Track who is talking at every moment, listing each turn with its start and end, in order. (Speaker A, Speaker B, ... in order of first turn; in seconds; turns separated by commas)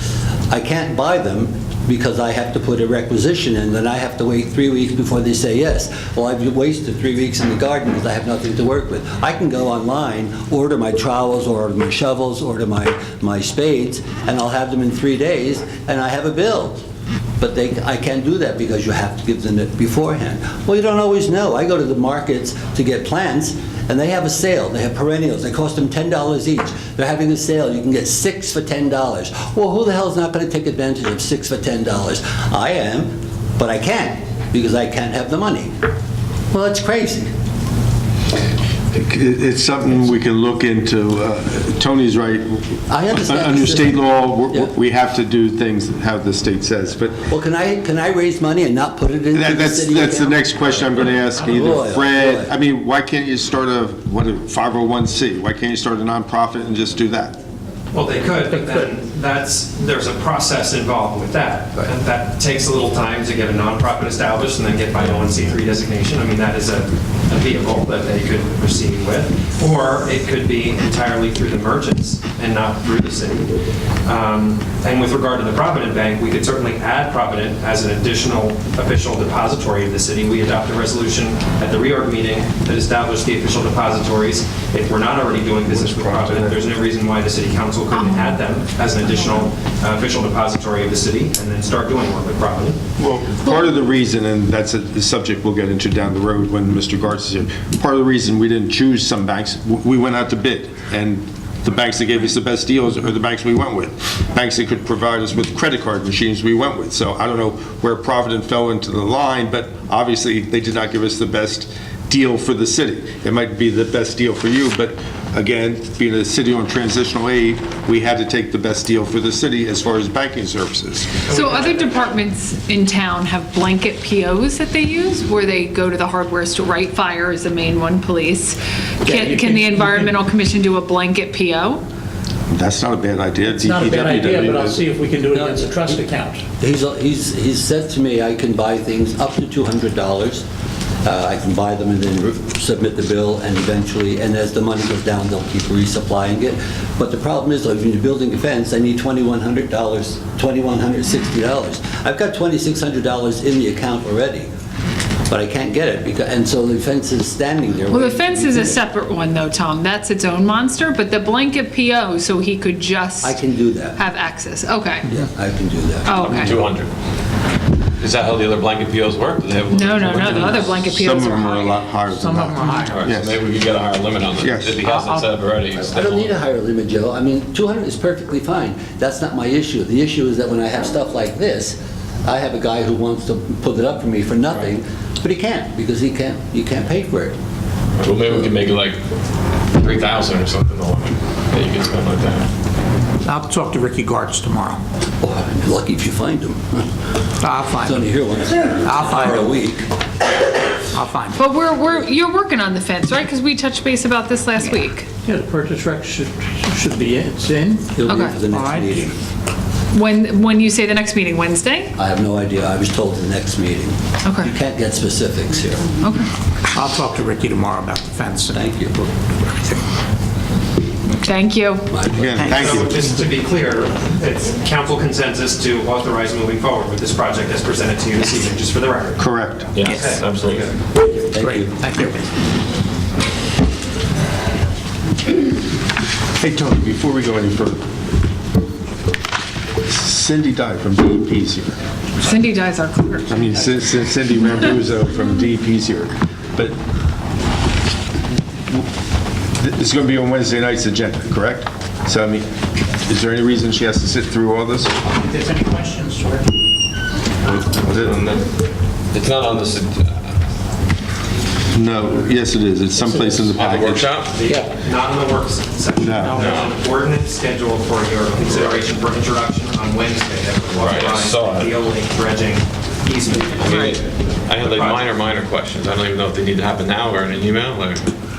Speaker A: 0.5-16.8, Speaker A: 17.4-35.7, Speaker A: 36.5-37.3, Speaker B: 38.9-47.2, Speaker A: 42.9-44.7, Speaker A: 47.3-52.5, Speaker B: 49.3-57.4, Speaker C: 57.9-73.5, Speaker C: 74.0-92.8, Speaker B: 85.7-86.7, Speaker D: 87.9-88.4, Speaker D: 89.0-89.3, Speaker B: 93.0-121.2, Speaker C: 121.3-122.1, Speaker D: 121.3-131.8, Speaker E: 129.0-130.2, Speaker B: 132.5-134.8, Speaker E: 133.5-136.4, Speaker A: 135.3-136.0, Speaker A: 136.6-140.4, Speaker A: 141.0-154.5, Speaker A: 155.3-158.8, Speaker D: 157.9-165.1, Speaker A: 163.2-164.0, Speaker A: 165.1-166.6, Speaker D: 166.1-166.6, Speaker F: 166.1-166.9, Speaker F: 168.0-170.8, Speaker D: 169.7-171.9, Speaker B: 170.8-173.4, Speaker E: 172.1-173.1, Speaker F: 172.9-176.3, Speaker B: 174.4-174.8, Speaker E: 174.8-175.3, Speaker A: 175.7-187.3, Speaker F: 188.0-189.0, Speaker F: 189.7-192.5, Speaker E: 193.2-194.8, Speaker A: 195.2-196.9, Speaker E: 197.4-198.1, Speaker A: 197.7-199.9, Speaker E: 198.8-199.5, Speaker E: 200.9-201.4, Speaker D: 201.3-205.1, Speaker E: 205.2-209.1, Speaker A: 207.9-209.2, Speaker D: 208.1-208.4, Speaker D: 209.9-211.9, Speaker A: 212.0-215.9, Speaker D: 214.2-214.5, Speaker D: 216.0-216.3, Speaker E: 216.7-218.7, Speaker A: 218.5-219.2, Speaker D: 221.2-222.0, Speaker A: 221.9-222.6, Speaker B: 222.1-223.0, Speaker C: 222.4-229.3, Speaker B: 229.2-229.7, Speaker F: 229.7-230.7, Speaker C: 229.8-230.8, Speaker A: 231.3-231.8, Speaker E: 231.4-232.3, Speaker B: 236.4-237.8, Speaker B: 239.8-241.8, Speaker D: 242.2-243.7, Speaker B: 243.3-246.8, Speaker B: 249.6-252.5, Speaker B: 253.1-255.0, Speaker E: 255.1-256.5, Speaker B: 257.4-258.4, Speaker F: 259.1-260.4, Speaker B: 261.7-264.2, Speaker F: 263.5-264.4, Speaker C: 264.3-274.1, Speaker B: 266.0-266.4, Speaker E: 266.2-266.6, Speaker F: 266.4-266.7, Speaker F: 270.8-271.8, Speaker F: 273.6-278.1, Speaker D: 273.7-274.0, Speaker C: 274.6-275.1